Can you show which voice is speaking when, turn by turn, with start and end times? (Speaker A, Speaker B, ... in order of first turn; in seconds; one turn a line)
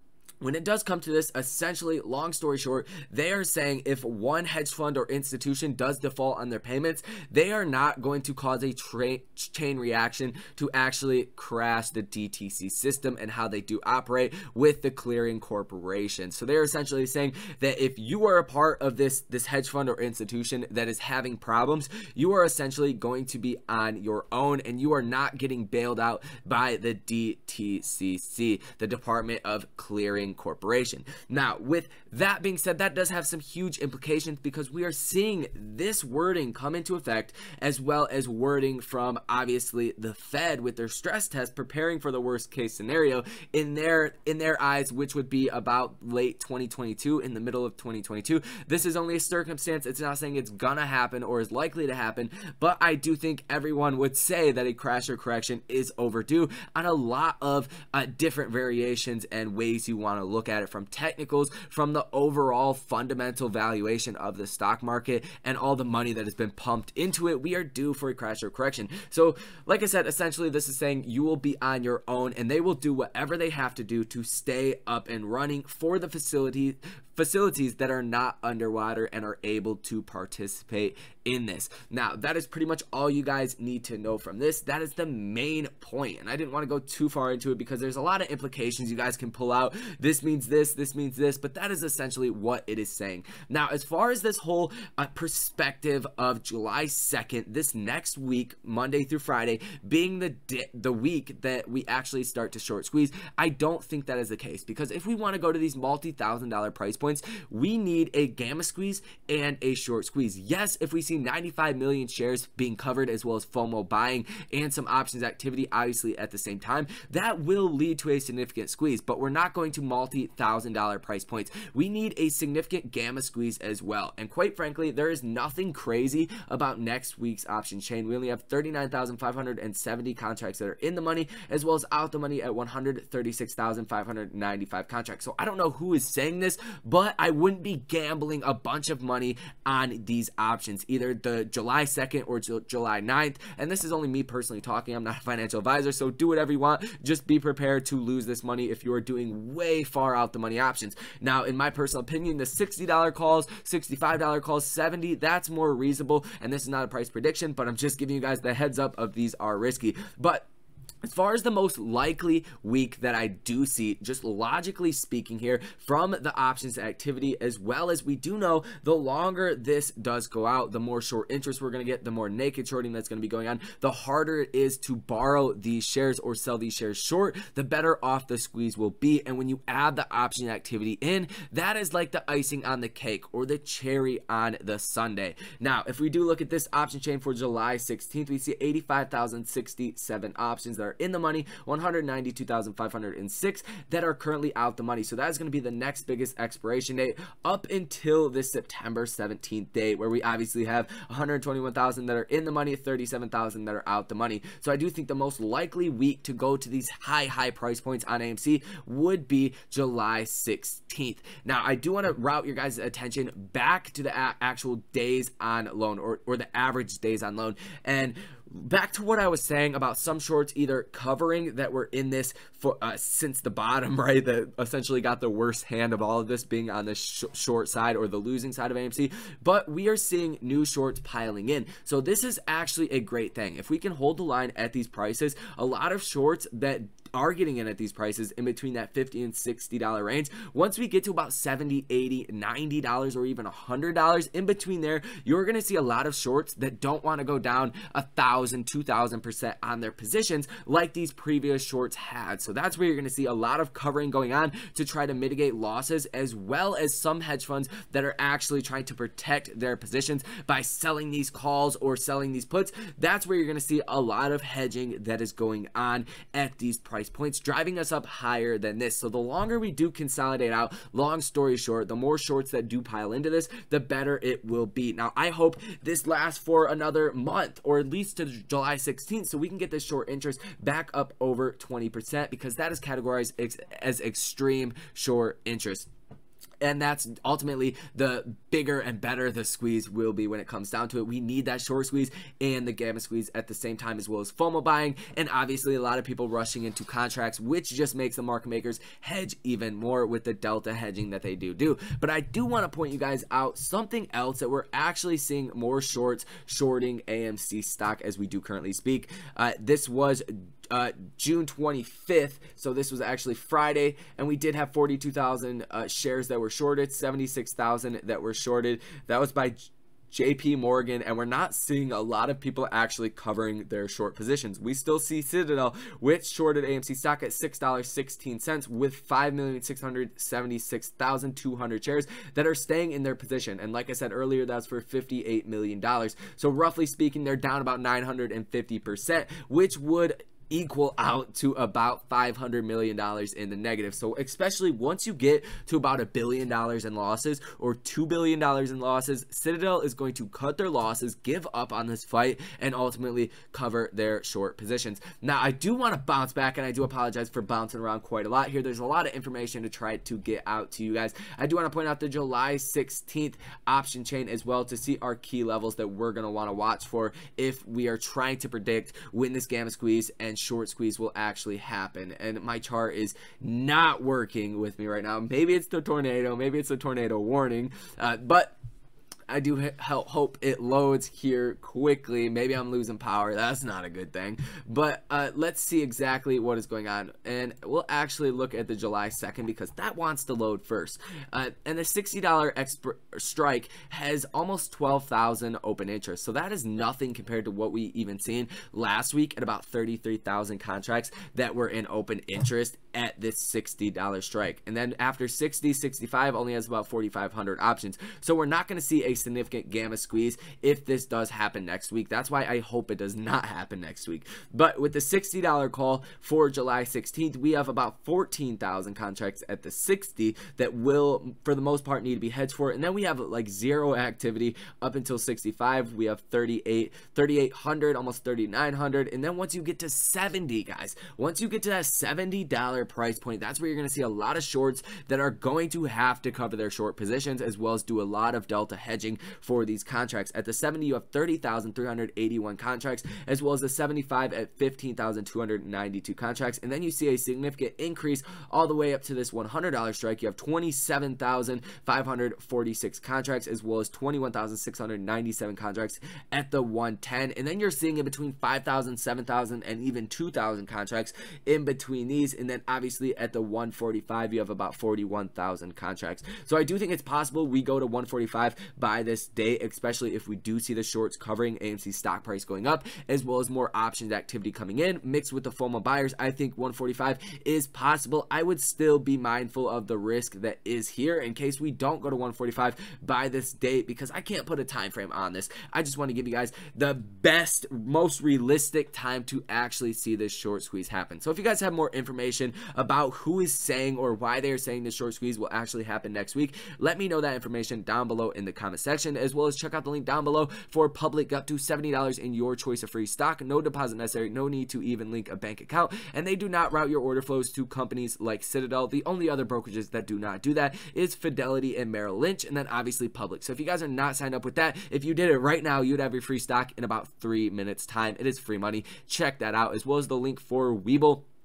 Speaker A: 0.4-160.5
Speaker A: 161.0-285.9
Speaker A: 286.6-378.5
Speaker A: 379.3-521.2